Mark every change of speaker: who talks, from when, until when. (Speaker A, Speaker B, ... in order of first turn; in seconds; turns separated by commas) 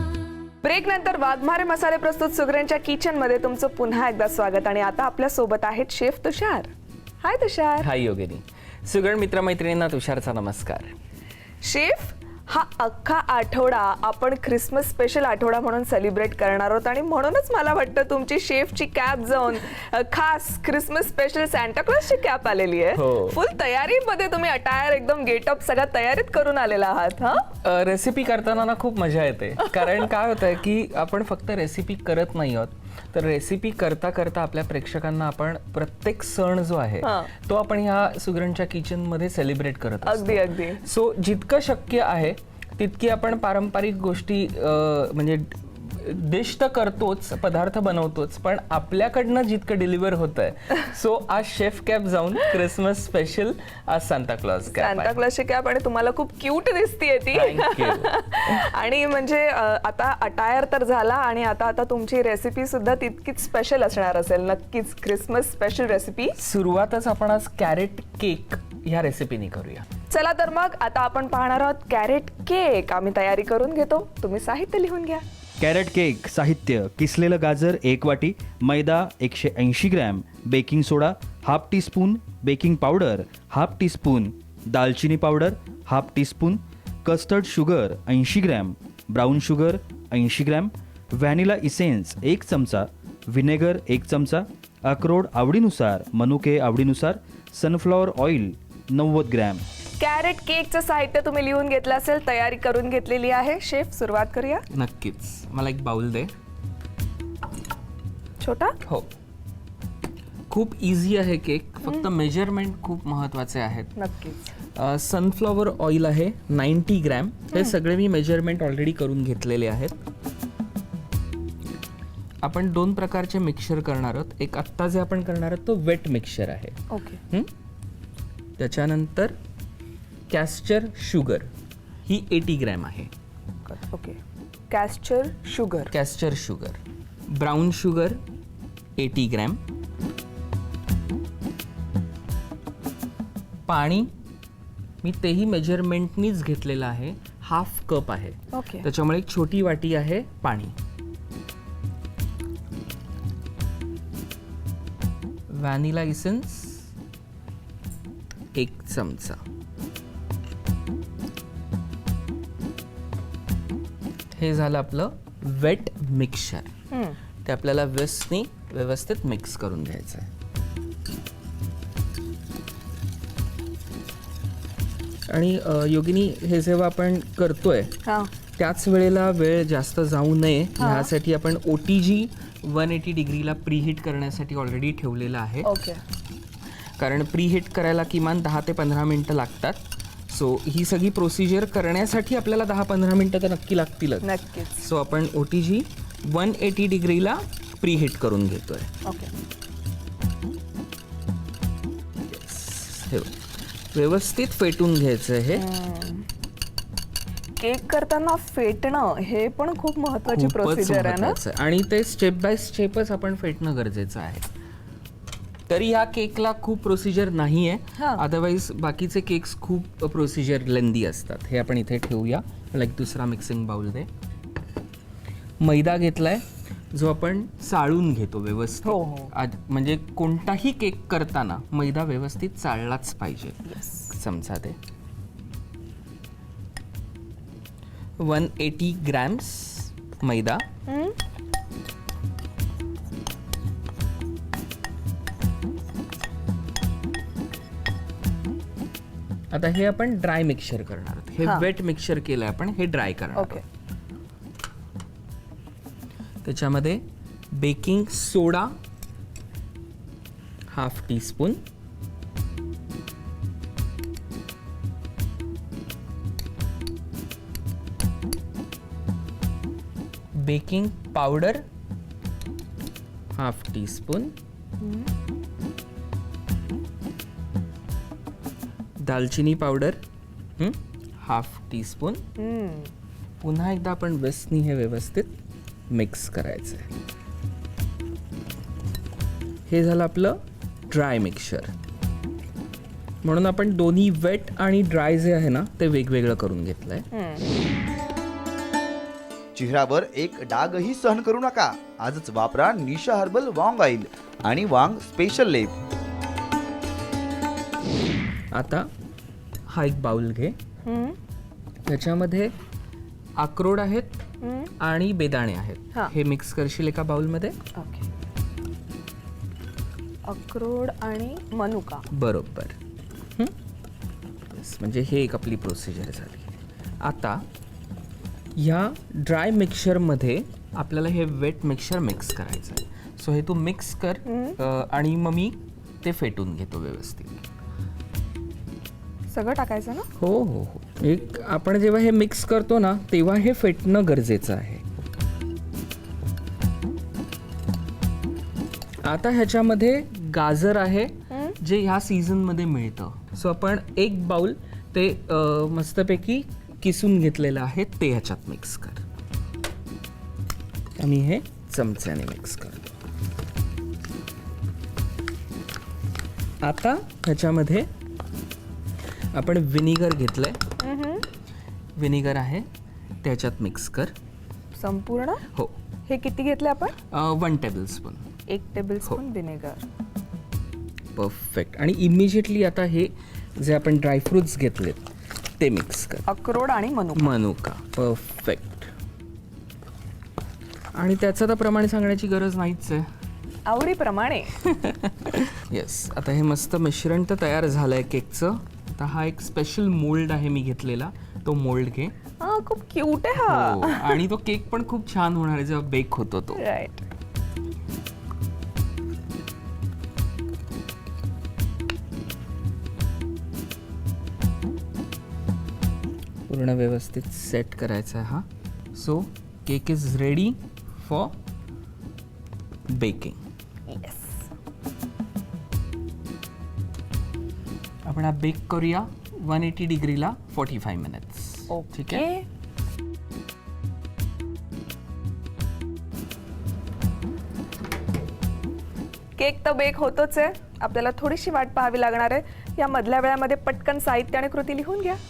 Speaker A: 0.6-6.7, Speaker A: 7.2-7.9, Speaker B: 7.8-11.0, Speaker A: 11.6-27.5, Speaker B: 23.0-23.4, Speaker B: 27.6-55.1, Speaker A: 37.0-37.3, Speaker A: 40.0-40.8, Speaker A: 54.7-66.3, Speaker B: 57.3-58.0, Speaker B: 66.4-69.8, Speaker A: 70.1-75.2, Speaker C: 75.6-99.6, Speaker A: 100.0-104.6, Speaker B: 104.7-106.3, Speaker A: 108.4-108.8, Speaker B: 108.8-109.1, Speaker B: 110.5-113.9, Speaker A: 111.8-112.1, Speaker A: 114.0-114.5, Speaker B: 114.7-120.0, Speaker A: 117.5-117.8, Speaker B: 122.4-126.8, Speaker A: 126.9-127.2, Speaker B: 128.6-129.3, Speaker B: 130.3-131.5, Speaker B: 132.1-133.1, Speaker A: 133.7-134.2, Speaker A: 134.7-135.9, Speaker B: 135.9-138.2, Speaker B: 139.0-139.6, Speaker B: 143.7-144.1, Speaker B: 145.0-150.8, Speaker A: 148.5-148.9, Speaker B: 155.5-156.9, Speaker B: 158.5-159.4, Speaker B: 164.3-166.7, Speaker A: 166.9-167.2, Speaker B: 167.4-170.3, Speaker B: 175.3-177.9, Speaker A: 178.0-178.3, Speaker B: 178.6-185.6, Speaker A: 180.8-181.1, Speaker A: 185.6-186.0, Speaker B: 187.0-198.9, Speaker A: 194.2-194.8, Speaker A: 199.0-199.3, Speaker B: 202.3-203.3, Speaker B: 203.9-205.6, Speaker A: 205.5-206.2, Speaker A: 207.6-211.4, Speaker B: 210.3-214.5, Speaker B: 215.7-224.1, Speaker A: 218.0-218.2, Speaker B: 225.6-234.8, Speaker A: 228.8-229.3, Speaker A: 233.7-234.1, Speaker B: 238.2-240.6, Speaker A: 240.9-241.1, Speaker B: 249.5-253.6, Speaker A: 251.4-251.7, Speaker A: 253.3-253.6, Speaker B: 256.4-258.7, Speaker B: 260.7-261.6, Speaker B: 270.4-271.6, Speaker B: 273.3-274.3, Speaker A: 274.8-275.1, Speaker B: 279.0-280.0, Speaker B: 280.6-282.2, Speaker A: 282.4-282.9, Speaker B: 283.4-285.4, Speaker B: 285.9-286.9, Speaker B: 289.7-291.7, Speaker B: 293.2-297.1, Speaker A: 297.1-297.4, Speaker D: 299.5-305.7, Speaker B: 308.5-308.9, Speaker B: 309.7-310.6, Speaker A: 310.8-311.2, Speaker B: 311.9-312.5, Speaker B: 313.4-314.2, Speaker A: 314.4-314.7, Speaker B: 314.8-317.6, Speaker A: 317.7-318.1, Speaker A: 320.2-322.0, Speaker B: 322.1-322.8, Speaker B: 324.5-326.5, Speaker B: 327.0-327.4, Speaker B: 328.6-337.4, Speaker A: 334.2-334.6, Speaker A: 339.3-340.1, Speaker B: 340.2-344.8, Speaker B: 349.0-359.0, Speaker A: 351.3-351.6, Speaker B: 361.0-362.9, Speaker B: 366.6-367.9, Speaker B: 369.3-370.6, Speaker A: 370.8-371.2, Speaker B: 372.0-372.6, Speaker B: 373.2-374.1, Speaker A: 374.7-375.4, Speaker A: 376.1-376.9, Speaker B: 377.1-378.2, Speaker A: 378.5-379.8, Speaker B: 381.1-385.0, Speaker B: 385.6-386.2, Speaker A: 386.3-387.3, Speaker B: 387.1-388.9, Speaker B: 390.9-393.1, Speaker A: 393.6-394.6, Speaker B: 394.8-402.1, Speaker A: 402.4-404.2, Speaker B: 403.4-406.6, Speaker A: 406.6-407.0, Speaker B: 416.5-421.4, Speaker B: 422.9-423.4, Speaker A: 423.9-424.4, Speaker B: 428.0-432.2, Speaker A: 431.7-432.4, Speaker A: 439.4-445.2